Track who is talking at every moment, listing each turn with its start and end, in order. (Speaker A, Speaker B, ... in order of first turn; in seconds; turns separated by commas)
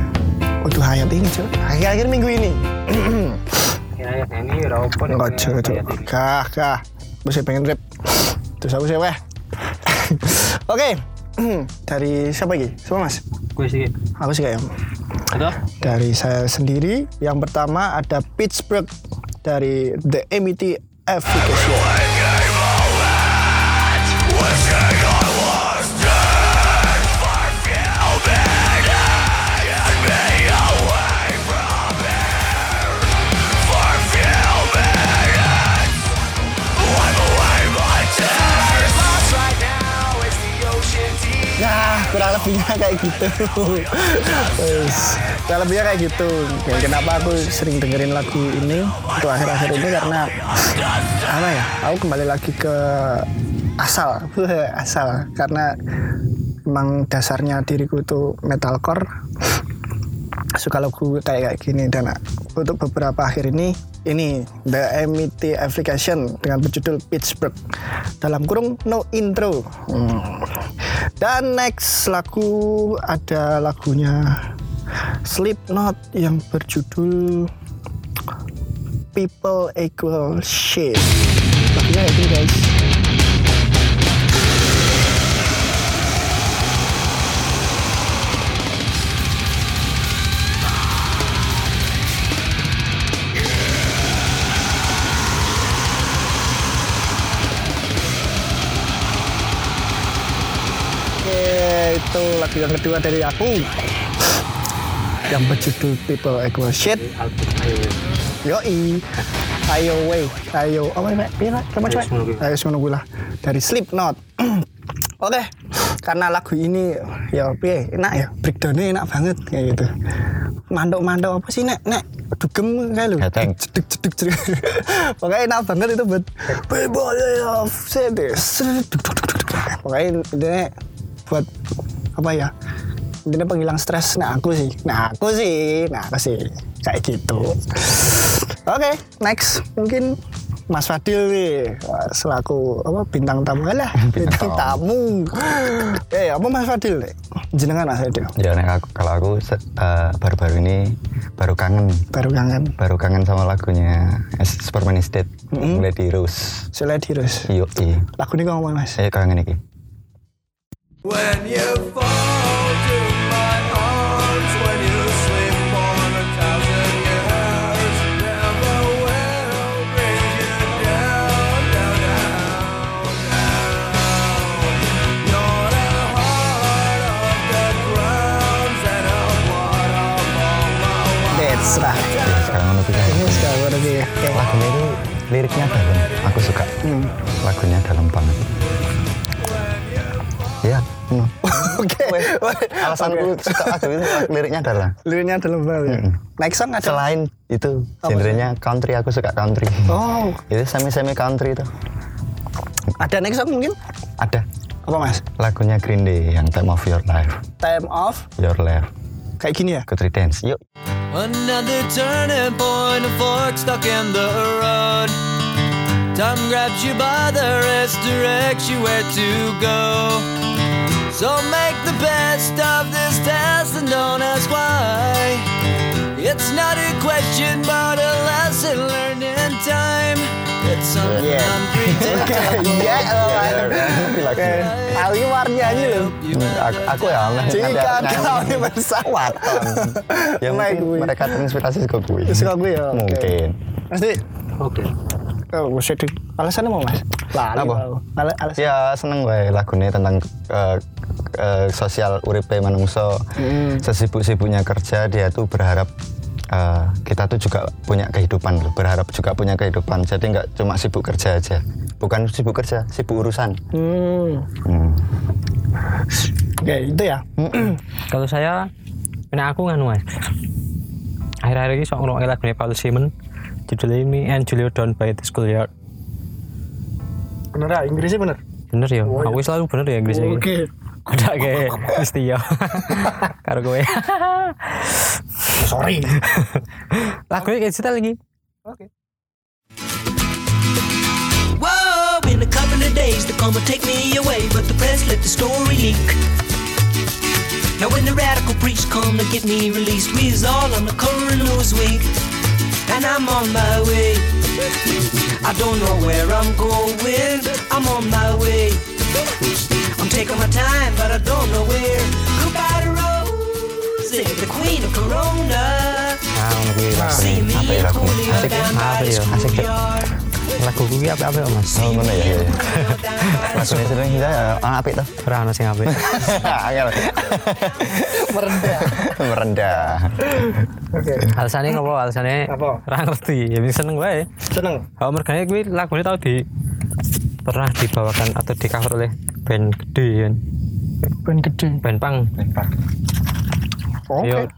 Speaker A: 0.6-3.4, Speaker B: 4.0-6.1, Speaker A: 5.1-9.2, Speaker A: 9.9-13.2, Speaker B: 13.6-14.0, Speaker A: 14.2-14.7, Speaker B: 15.3-15.7, Speaker A: 15.7-18.9, Speaker A: 19.4-22.0, Speaker C: 38.7-41.5, Speaker A: 41.5-50.5, Speaker A: 51.2-53.3, Speaker A: 53.8-55.7, Speaker A: 56.7-59.1, Speaker A: 60.6-67.6, Speaker A: 68.2-70.7, Speaker A: 71.2-74.4, Speaker A: 75.2-77.5, Speaker A: 79.1-81.1, Speaker A: 81.7-82.8, Speaker A: 101.2-103.8, Speaker A: 105.3-107.0, Speaker B: 106.8-108.0, Speaker A: 108.4-109.0, Speaker A: 109.7-114.7, Speaker B: 111.8-112.5, Speaker A: 115.2-115.5, Speaker A: 116.0-119.9, Speaker A: 120.7-130.7, Speaker D: 123.2-123.6, Speaker A: 132.2-132.5, Speaker A: 133.2-140.2, Speaker A: 140.7-148.3, Speaker D: 144.0-144.8, Speaker D: 148.4-152.1, Speaker A: 152.1-152.7, Speaker D: 152.8-156.7, Speaker A: 155.5-155.8, Speaker A: 156.7-157.5, Speaker D: 157.4-158.1, Speaker A: 158.2-159.0, Speaker D: 158.9-159.6, Speaker C: 161.0-182.4, Speaker A: 181.3-182.3, Speaker D: 182.2-183.5, Speaker A: 183.0-184.5, Speaker D: 184.3-188.4, Speaker A: 186.8-187.2, Speaker D: 190.6-195.0, Speaker A: 191.4-194.3, Speaker A: 195.0-197.0, Speaker D: 195.8-196.2, Speaker D: 196.8-201.7, Speaker A: 198.0-198.5, Speaker A: 199.9-200.4, Speaker A: 203.0-203.8, Speaker A: 204.8-205.2, Speaker D: 205.4-207.4, Speaker A: 207.6-208.3, Speaker D: 208.4-208.9, Speaker A: 209.4-209.8, Speaker D: 209.9-210.6, Speaker C: 211.1-215.2, Speaker C: 216.1-220.3, Speaker C: 221.1-225.5, Speaker C: 226.1-233.4, Speaker D: 231.0-234.8, Speaker A: 231.2-236.2, Speaker C: 235.8-237.8, Speaker D: 236.3-243.6, Speaker A: 237.4-241.4, Speaker A: 242.3-243.3, Speaker A: 243.9-244.2, Speaker B: 244.6-244.9, Speaker A: 245.5-248.8, Speaker D: 247.5-247.9, Speaker D: 248.6-250.8, Speaker D: 251.3-255.9, Speaker A: 253.4-253.8, Speaker D: 256.5-263.6, Speaker A: 263.7-264.5, Speaker D: 264.6-265.0, Speaker A: 266.6-267.8, Speaker D: 267.4-267.7, Speaker B: 268.1-268.7, Speaker B: 269.3-270.0, Speaker B: 271.4-273.1, Speaker B: 273.7-275.7, Speaker A: 277.5-278.4, Speaker B: 278.7-280.5, Speaker A: 279.1-279.4, Speaker A: 280.1-280.7, Speaker B: 281.1-285.1, Speaker A: 281.5-282.0, Speaker A: 285.6-286.2, Speaker B: 286.2-288.2, Speaker E: 291.6-296.2, Speaker E: 297.8-302.1, Speaker E: 302.9-304.3, Speaker E: 305.2-308.9, Speaker E: 309.4-316.3, Speaker B: 316.3-317.3, Speaker A: 316.9-317.2, Speaker E: 317.0-320.2, Speaker D: 317.1-319.6, Speaker B: 318.7-319.6, Speaker B: 320.5-321.9, Speaker D: 321.7-322.7, Speaker E: 321.8-323.8, Speaker B: 323.3-323.9, Speaker D: 323.5-325.1, Speaker B: 325.2-326.1, Speaker D: 325.9-328.1, Speaker A: 328.0-329.2, Speaker D: 328.7-330.3, Speaker A: 329.8-331.3, Speaker B: 331.3-334.3, Speaker A: 332.5-332.8, Speaker A: 334.5-334.9, Speaker B: 335.0-336.4, Speaker B: 337.4-340.4, Speaker A: 341.2-341.8, Speaker B: 341.8-342.3, Speaker D: 342.4-342.7, Speaker A: 344.1-344.5, Speaker B: 344.2-344.5